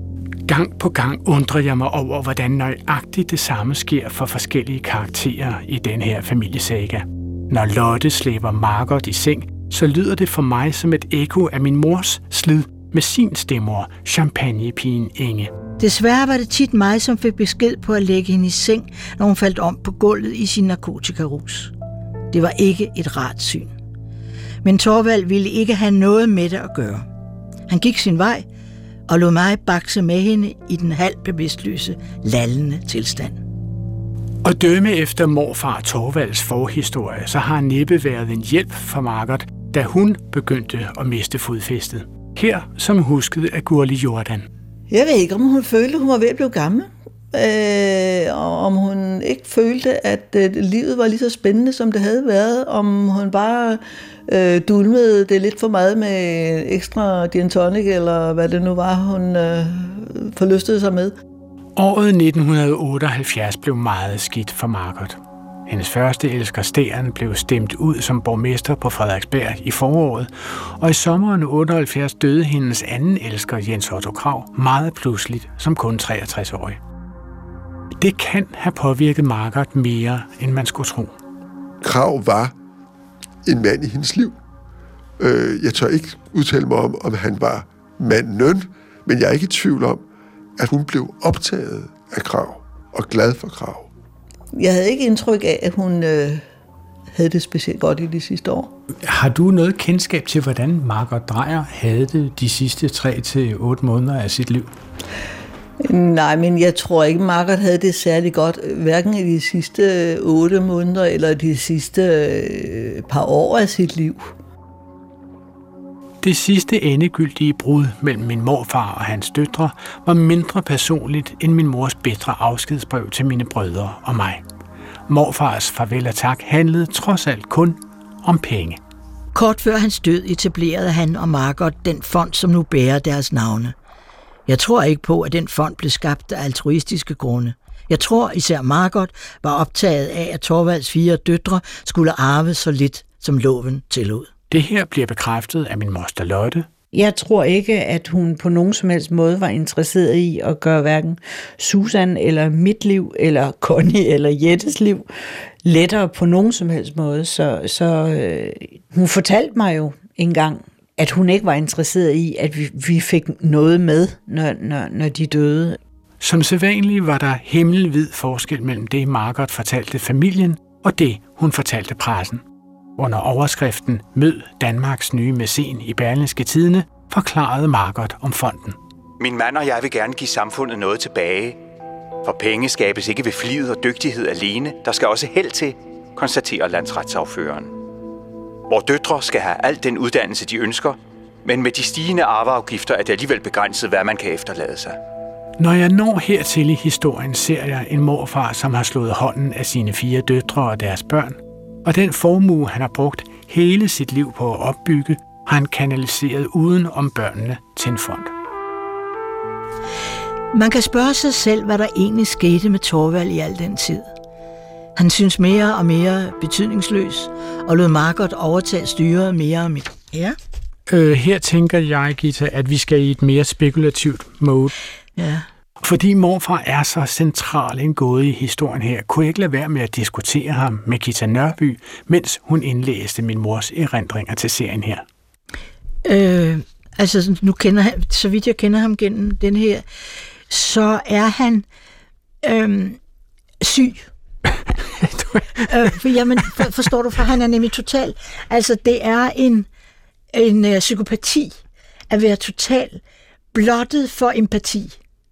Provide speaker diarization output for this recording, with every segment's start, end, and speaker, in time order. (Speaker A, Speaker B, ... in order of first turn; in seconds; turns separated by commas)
Speaker A: 0.5-15.5, Speaker B: 15.8-21.7, Speaker B: 22.3-23.7, Speaker B: 24.6-27.1, Speaker B: 27.7-28.5, Speaker B: 29.1-33.4, Speaker A: 34.4-44.5, Speaker C: 44.9-61.1, Speaker A: 61.8-76.8, Speaker A: 78.0-81.2, Speaker D: 81.8-82.5, Speaker D: 83.5-84.3, Speaker D: 85.2-90.0, Speaker D: 90.6-93.9, Speaker C: 94.5-96.4, Speaker C: 97.1-98.7, Speaker A: 99.0-104.7, Speaker C: 105.8-114.2, Speaker A: 116.2-124.4, Speaker A: 125.1-128.8, Speaker B: 129.3-133.7, Speaker B: 134.5-144.3, Speaker A: 144.5-146.7, Speaker E: 146.9-155.1, Speaker E: 155.6-165.8, Speaker A: 166.2-172.4, Speaker A: 173.0-178.8, Speaker F: 179.2-181.6, Speaker F: 182.2-187.7, Speaker F: 188.7-195.0, Speaker A: 195.6-208.3, Speaker B: 210.5-214.1, Speaker B: 215.0-220.4, Speaker A: 220.9-224.7, Speaker B: 225.2-225.4, Speaker A: 225.8-235.0, Speaker B: 236.1-239.8, Speaker B: 240.5-241.7, Speaker B: 242.4-243.0, Speaker B: 243.6-244.1, Speaker A: 245.0-245.7, Speaker B: 245.6-249.7, Speaker B: 250.3-251.6, Speaker B: 252.1-253.0, Speaker B: 253.5-255.0